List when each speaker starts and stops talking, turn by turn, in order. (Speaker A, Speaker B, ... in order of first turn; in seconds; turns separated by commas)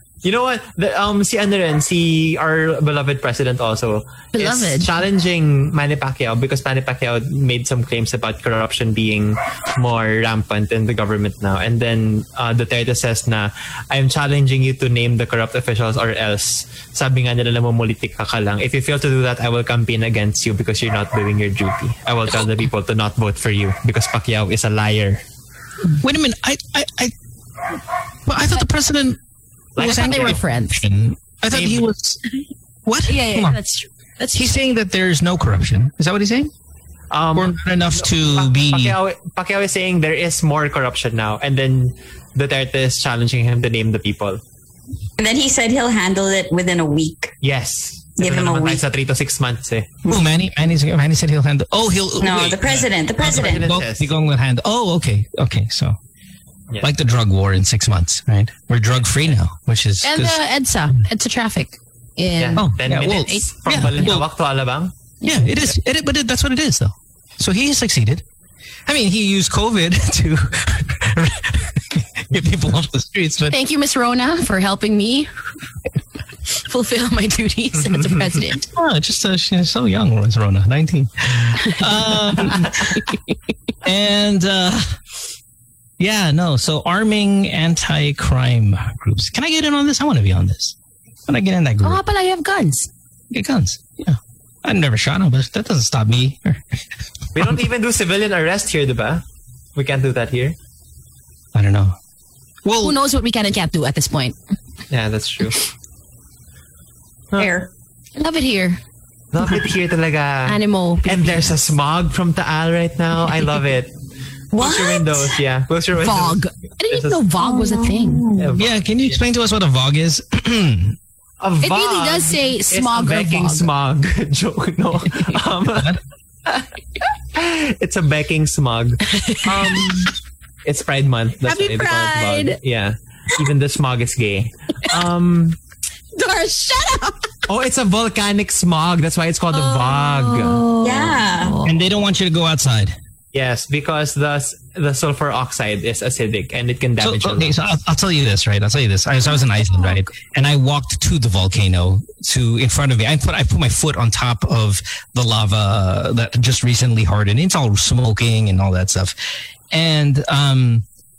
Speaker A: 0.2-25.2, Speaker B: 4.3-4.9, Speaker C: 26.0-27.1, Speaker C: 28.3-29.2, Speaker A: 29.7-30.4, Speaker C: 29.8-32.2, Speaker B: 29.8-30.8, Speaker A: 31.5-31.9, Speaker C: 32.9-33.6, Speaker B: 33.1-34.5, Speaker C: 34.3-36.5, Speaker A: 37.1-44.4, Speaker C: 37.3-39.0, Speaker D: 45.2-47.3, Speaker A: 47.4-50.0, Speaker D: 48.2-48.8, Speaker C: 50.1-56.0, Speaker D: 52.2-53.7, Speaker A: 53.2-54.1, Speaker C: 56.8-60.4, Speaker B: 60.0-63.4, Speaker A: 62.4-64.9, Speaker C: 62.5-64.3, Speaker C: 65.2-68.2, Speaker C: 68.8-73.6, Speaker B: 73.5-75.3, Speaker B: 76.5-78.7, Speaker A: 77.8-78.3, Speaker C: 78.6-83.0, Speaker C: 83.8-85.0, Speaker C: 86.0-90.8, Speaker C: 91.3-92.0, Speaker B: 91.8-92.9, Speaker C: 93.3-96.6, Speaker A: 97.3-99.2, Speaker A: 99.7-100.5, Speaker C: 101.5-102.0, Speaker C: 102.6-103.0, Speaker B: 102.8-104.3, Speaker A: 104.9-105.6, Speaker D: 107.4-107.7, Speaker B: 108.2-108.8, Speaker A: 109.3-113.9, Speaker B: 110.5-111.5, Speaker A: 114.5-117.3, Speaker D: 114.5-115.3, Speaker B: 115.9-118.3, Speaker D: 117.4-118.6, Speaker A: 118.3-119.2, Speaker C: 118.6-121.0, Speaker A: 121.4-126.7, Speaker B: 121.6-123.7, Speaker C: 125.7-126.0, Speaker A: 127.3-130.1, Speaker B: 129.1-130.0, Speaker A: 130.6-135.6, Speaker B: 131.4-132.6, Speaker B: 136.1-137.3, Speaker A: 137.5-140.6, Speaker B: 139.5-141.7, Speaker D: 140.8-141.6, Speaker C: 141.6-142.9, Speaker A: 143.3-147.5, Speaker C: 147.0-159.1, Speaker B: 149.3-150.0, Speaker C: 159.7-160.8